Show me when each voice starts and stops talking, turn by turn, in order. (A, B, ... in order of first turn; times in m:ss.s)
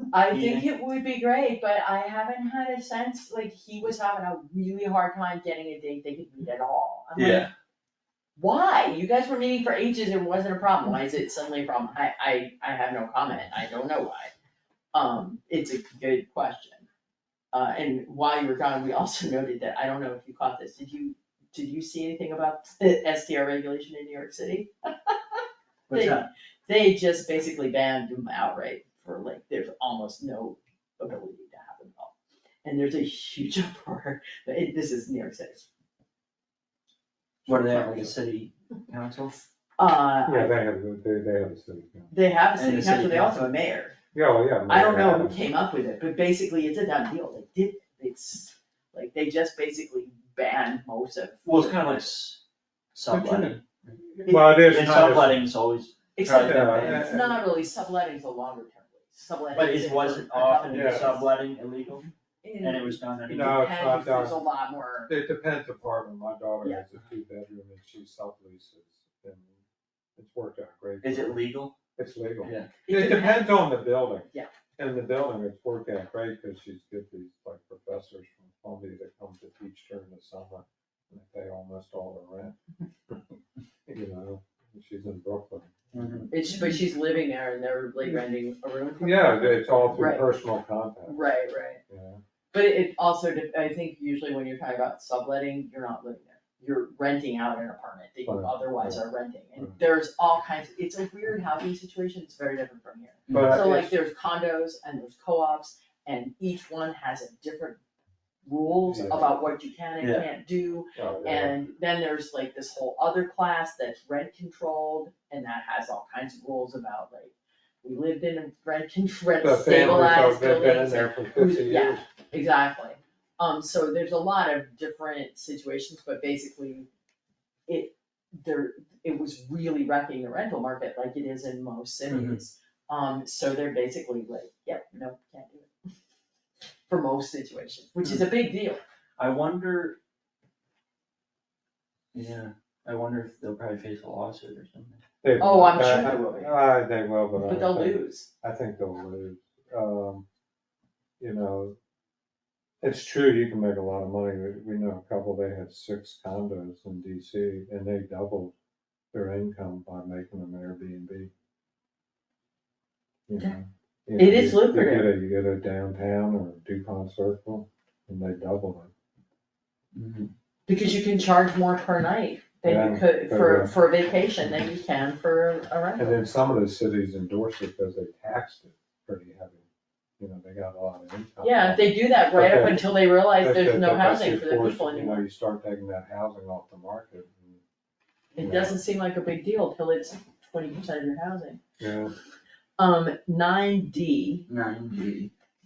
0:00.1-0:07.5 A
0:00.3-0:00.7 B
0:07.2-0:07.5 B
0:08.4-0:14.3 A
0:14.9-0:16.8 A
0:17.5-0:32.1 A
0:25.9-0:26.3 B
0:32.6-0:35.6 A
0:37.4-0:38.2 A
0:37.5-0:39.4 B
0:39.8-0:40.6 A
0:40.3-0:42.1 C
0:42.1-0:44.0 A
0:42.6-0:43.5 B
0:44.1-0:45.4 C
0:44.7-0:52.1 A
0:51.4-0:52.4 B
0:52.9-0:54.0 B
0:53.1-0:53.6 C
0:54.2-0:54.7 A
0:54.3-0:55.4 C
0:54.5-0:57.1 B
0:56.2-1:01.3 A
0:56.3-0:57.5 C
0:59.5-1:02.1 B
1:00.7-1:01.1 C
1:02.4-1:05.1 A
1:02.6-1:03.6 B
1:03.3-1:04.4 C
1:05.1-1:09.6 C
1:10.2-1:22.6 C
1:11.0-1:11.8 B
1:12.4-1:12.7 B
1:12.8-1:13.7 A
1:23.9-1:26.3 C
1:25.9-1:26.3 B
1:26.3-1:30.3 A
1:29.0-1:31.2 C
1:31.1-1:31.8 A
1:31.9-1:32.2 C
1:32.5-1:47.8 A
1:38.2-1:39.0 C
1:43.3-1:43.6 B
1:43.3-1:43.9 C
1:48.4-2:06.9 A
1:48.9-1:49.3 C
1:50.0-1:50.3 B
1:51.0-1:51.6 C
1:59.4-2:02.0 C
2:07.7-2:15.7 A
2:12.1-2:12.4 B
2:16.9-2:18.8 A
2:19.2-2:20.0 B
2:22.1-2:25.0 B
2:25.2-2:30.2 C
2:25.4-2:26.5 A
2:25.7-2:26.2 B
2:27.4-2:28.3 A
2:31.2-2:31.8 C
2:32.8-2:38.5 C
2:39.1-2:41.3 C
2:43.3-2:48.9 C
2:44.2-2:45.1 A
2:49.9-2:50.3 B
2:50.7-2:56.2 A
2:52.6-2:53.7 C
2:56.0-2:59.7 C
3:00.2-3:07.6 C
3:01.4-3:05.2 A
3:08.4-3:11.6 A
3:08.4-3:08.8 C
3:11.8-3:12.1 C
3:12.8-3:14.4 A
3:14.5-3:15.3 B